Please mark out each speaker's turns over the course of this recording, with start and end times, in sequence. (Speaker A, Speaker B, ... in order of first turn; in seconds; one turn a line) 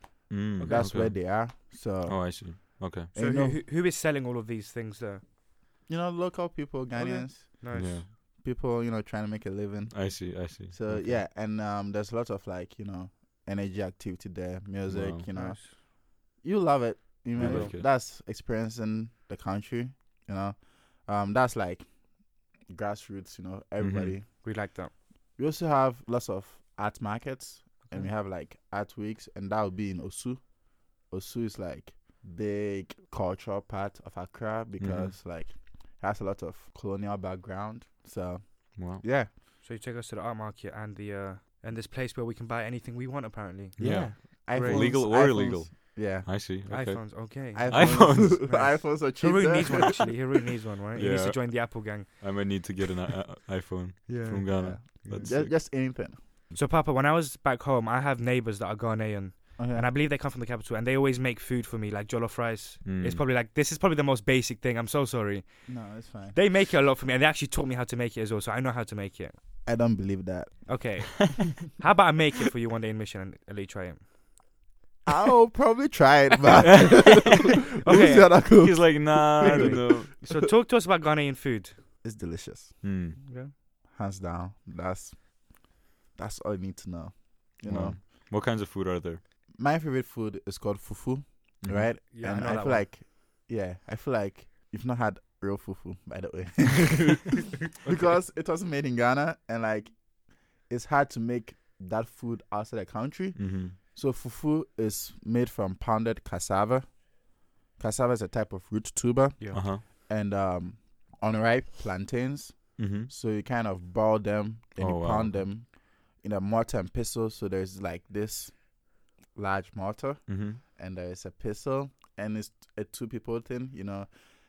Speaker A: 0.3-3.1
Speaker B: 0.6-0.9
Speaker C: 0.7-3.6
Speaker B: 3.1-5.2
Speaker C: 5.9-24.6
Speaker B: 6.9-8.0
Speaker A: 7.7-8.1
Speaker A: 9.9-11.3
Speaker A: 14.8-15.3
Speaker B: 15.3-15.8
Speaker A: 17.4-17.8
Speaker B: 17.4-17.8
Speaker A: 23.8-24.1
Speaker B: 24.4-24.9
Speaker C: 25.4-39.3
Speaker A: 34.8-35.1
Speaker A: 38.8-39.0
Speaker B: 39.6-45.0
Speaker C: 43.8-46.7
Speaker A: 43.8-48.6
Speaker B: 46.7-52.7
Speaker C: 47.5-49.8
Speaker A: 51.0-55.5
Speaker B: 54.1-55.4
Speaker C: 54.5-56.2
Speaker B: 56.5-69.4
Speaker C: 59.6-59.9
Speaker A: 62.8-63.2
Speaker C: 65.7-66.4
Speaker C: 69.6-71.3
Speaker B: 70.6-74.1
Speaker C: 75.0-80.3
Speaker A: 76.8-77.1
Speaker B: 77.2-78.4
Speaker A: 78.3-80.1
Speaker B: 79.4-81.8
Speaker C: 82.0-82.8
Speaker A: 82.8-83.2
Speaker B: 83.2-83.5
Speaker C: 83.9-88.0
Speaker A: 87.6-89.2
Speaker C: 89.6-107.2
Speaker A: 91.6-91.9
Speaker B: 92.1-92.9
Speaker A: 103.3-103.8
Speaker C: 107.8-124.1
Speaker B: 109.4-109.6
Speaker A: 109.5-109.8
Speaker A: 112.8-113.1
Speaker A: 114.8-115.5
Speaker A: 120.3-120.6